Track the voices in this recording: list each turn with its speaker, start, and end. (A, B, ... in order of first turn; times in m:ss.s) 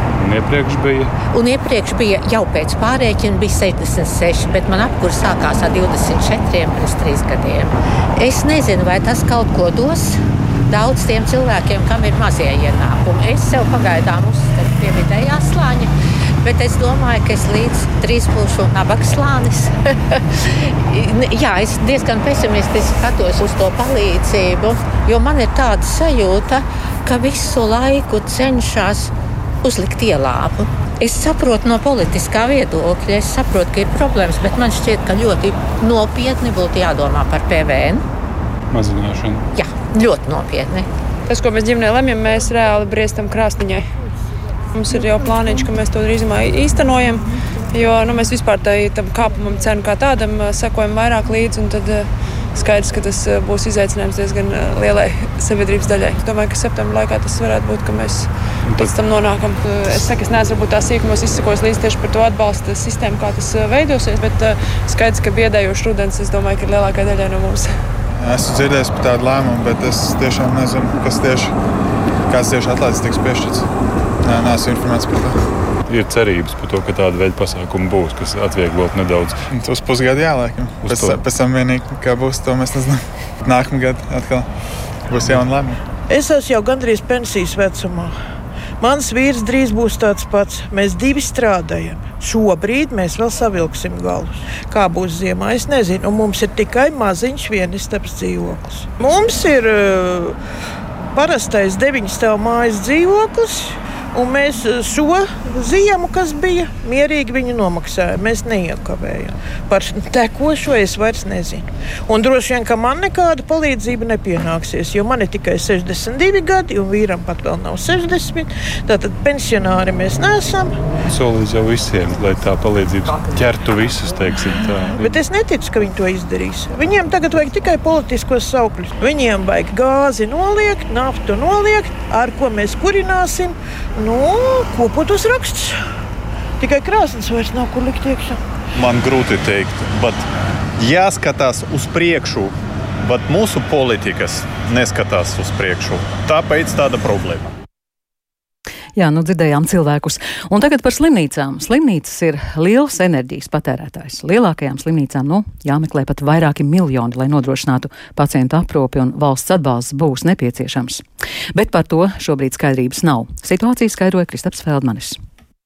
0:00.2-0:01.1 A
0:01.3-0:29.1 B
0:29.6-0:38.0 B
0:38.7-0:39.4 A
0:39.5-0:40.9 B
0:41.3-0:43.8 C
0:44.7-1:07.7 C
1:08.1-1:11.5 D
1:12.3-1:13.7 D
1:14.2-1:15.4 D
1:15.9-1:19.4 A
1:19.5-1:24.5 D
1:20.8-1:21.2 A
1:25.1-1:25.8 D
1:26.1-1:28.1 E
1:28.8-1:40.4 E
1:41.1-2:00.7 E
2:01.1-2:05.1 A
2:05.0-2:15.8 E
2:16.6-2:18.4 E
2:18.7-2:20.2 F
2:20.8-2:27.5 F
2:29.0-2:41.0 G
2:41.5-2:45.2 G